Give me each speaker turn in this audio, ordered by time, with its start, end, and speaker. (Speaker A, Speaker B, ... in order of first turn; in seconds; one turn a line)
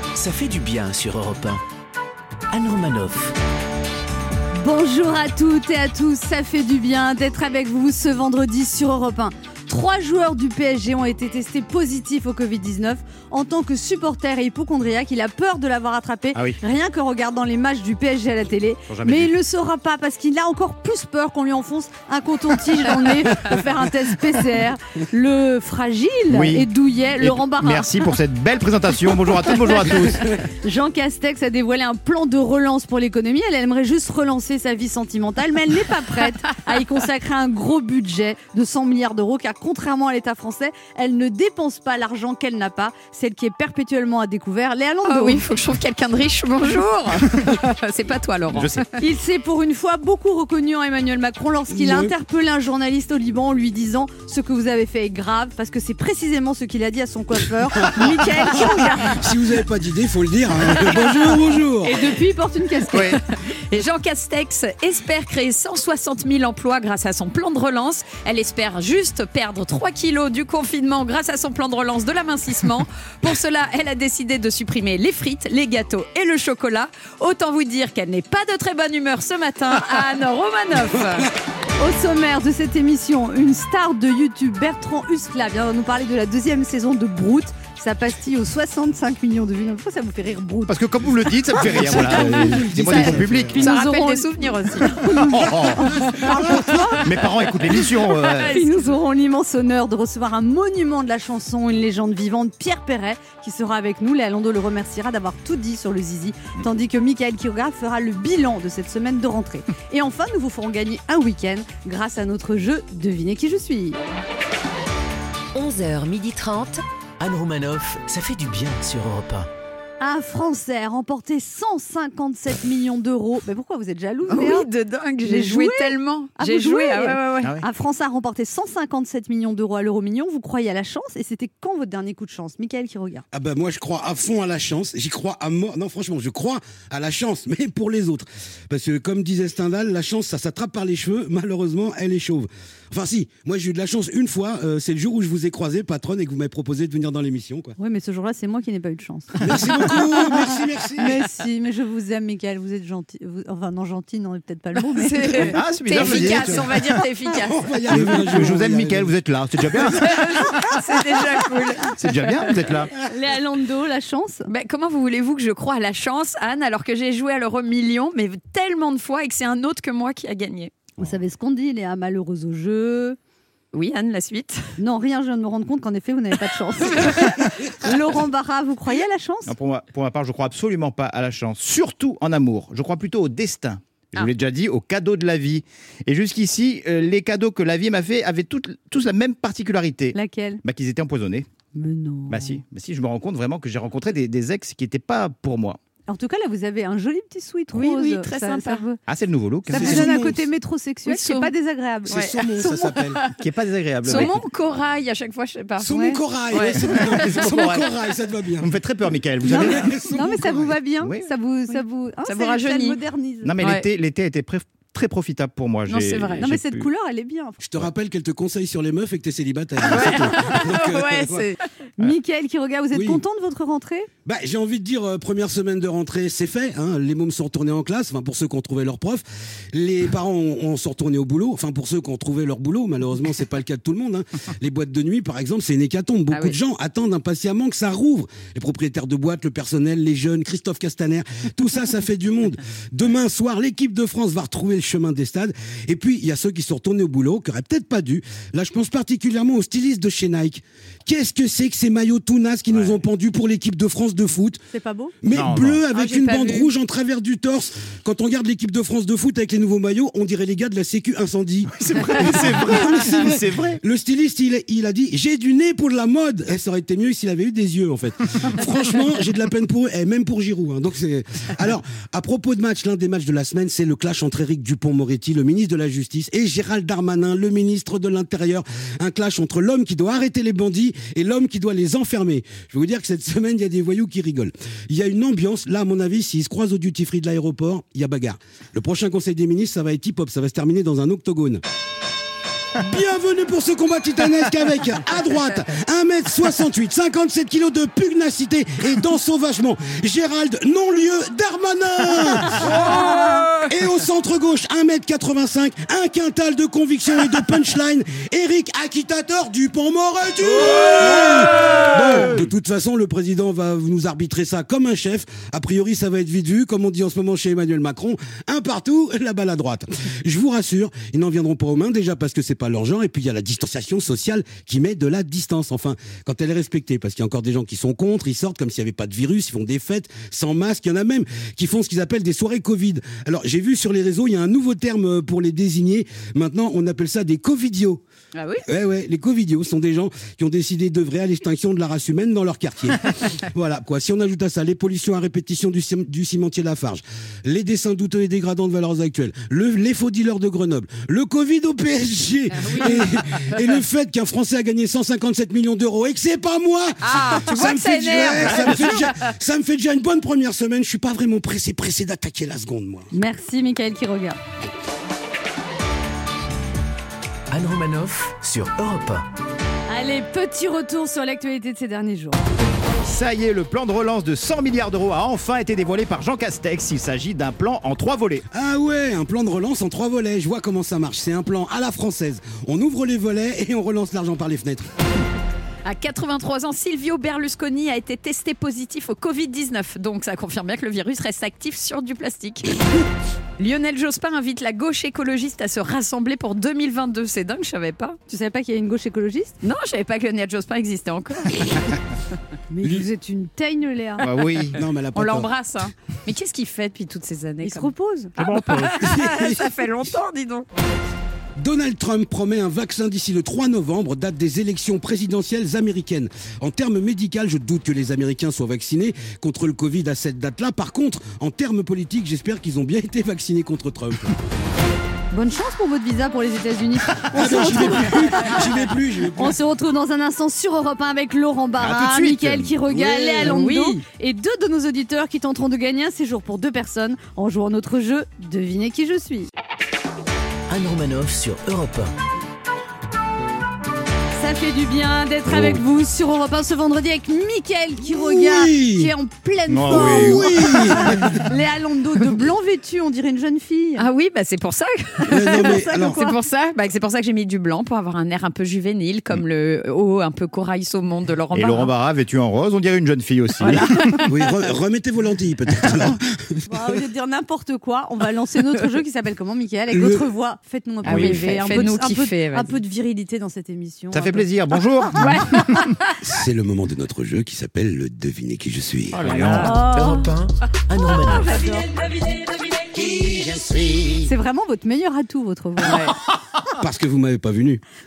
Speaker A: 0.1-1.6
Speaker A: 2.5-3.3
Speaker B: 4.5-28.1
Speaker C: 16.3-16.6
Speaker C: 18.9-19.3
Speaker C: 26.3-30.3
Speaker B: 29.5-29.9
Speaker B: 30.6-45.4
Speaker D: 45.0-48.9
Speaker C: 48.5-48.8
Speaker B: 49.0-59.3
Speaker E: 51.7-52.1
Speaker E: 57.9-62.1
Speaker B: 61.8-63.2
Speaker C: 62.9-63.2
Speaker D: 63.3-81.3
Speaker B: 81.8-90.8
Speaker C: 90.7-93.6
Speaker E: 91.6-93.6
Speaker B: 91.6-97.5
Speaker D: 92.8-95.4
Speaker C: 95.3-96.1
Speaker D: 96.5-97.0
Speaker C: 97.0-98.6
Speaker D: 97.6-99.0
Speaker B: 98.4-114.0
Speaker A: 115.5-119.5
Speaker B: 120.0-124.7
Speaker D: 124.3-127.5
Speaker B: 125.2-133.2
Speaker E: 133.3-147.8
Speaker B: 147.8-150.4
Speaker E: 149.4-151.2
Speaker B: 150.9-155.6
Speaker D: 154.8-157.7
Speaker C: 155.4-157.0
Speaker E: 155.9-156.7
Speaker E: 157.3-159.1
Speaker C: 157.9-160.2
Speaker D: 160.0-162.4
Speaker C: 161.9-162.9
Speaker B: 163.0-164.5
Speaker D: 164.5-170.7
Speaker B: 171.0-173.2
Speaker D: 173.7-174.7
Speaker B: 174.8-179.5
Speaker C: 179.4-191.5
Speaker B: 190.1-190.6
Speaker B: 191.7-192.6
Speaker C: 192.3-195.8
Speaker B: 196.1-199.0
Speaker D: 197.7-198.8
Speaker C: 199.1-200.1
Speaker B: 199.7-203.1
Speaker E: 199.7-200.4
Speaker D: 201.0-201.5
Speaker E: 202.1-203.2
Speaker D: 202.1-203.3
Speaker C: 203.4-204.4
Speaker D: 204.0-207.8
Speaker E: 205.8-208.7
Speaker B: 205.9-206.2
Speaker C: 207.2-207.8
Speaker C: 208.6-211.3
Speaker E: 209.5-210.6
Speaker B: 210.1-213.5
Speaker D: 211.7-213.0
Speaker C: 213.4-216.9
Speaker D: 213.6-213.8
Speaker D: 215.9-216.5
Speaker B: 216.4-217.6
Speaker E: 217.6-221.5
Speaker D: 219.8-221.7
Speaker B: 222.0-224.1
Speaker E: 222.9-223.2
Speaker E: 224.2-254.6
Speaker D: 236.3-236.6
Speaker B: 254.7-255.1
Speaker E: 255.2-291.6
Speaker C: 255.3-255.8
Speaker D: 255.9-256.7
Speaker C: 261.7-263.8
Speaker E: 292.8-338.0
Speaker D: 303.1-303.6
Speaker C: 310.7-311.6
Speaker D: 338.3-338.6
Speaker E: 338.6-363.1
Speaker D: 352.6-353.8
Speaker D: 357.0-359.3
Speaker C: 358.3-359.1
Speaker B: 363.1-364.4
Speaker A: 367.5-369.2
Speaker B: 369.9-372.4
Speaker C: 373.0-378.4
Speaker E: 378.5-384.9
Speaker D: 385.8-392.8
Speaker D: 393.6-398.2
Speaker B: 398.3-399.6
Speaker D: 399.6-402.0
Speaker B: 402.7-404.2
Speaker C: 404.2-404.8
Speaker E: 404.7-405.5
Speaker D: 405.1-410.7
Speaker B: 407.6-408.3
Speaker C: 408.4-409.1
Speaker E: 409.0-409.7
Speaker E: 411.6-424.4
Speaker B: 425.3-428.6
Speaker E: 427.3-429.6
Speaker B: 429.4-439.5
Speaker C: 431.8-432.7
Speaker E: 432.8-433.5
Speaker D: 433.3-434.0
Speaker A: 440.7-442.1
Speaker B: 444.3-454.1
Speaker E: 445.5-445.8
Speaker E: 448.1-449.1
Speaker C: 449.7-451.3
Speaker E: 449.9-451.4
Speaker D: 454.0-461.9
Speaker E: 455.3-456.2
Speaker B: 455.6-456.3
Speaker C: 461.5-464.2
Speaker D: 463.6-464.3
Speaker E: 464.2-466.6
Speaker B: 466.7-474.5
Speaker E: 469.9-470.2
Speaker D: 471.0-472.8
Speaker C: 474.1-475.8
Speaker D: 475.1-476.3
Speaker E: 476.2-479.4
Speaker D: 479.1-480.2
Speaker C: 479.2-479.8
Speaker A: 479.4-481.7
Speaker B: 479.5-480.2
Speaker D: 481.3-481.7
Speaker B: 481.4-481.8
Speaker B: 484.2-486.1
Speaker D: 485.8-486.2
Speaker E: 486.8-487.8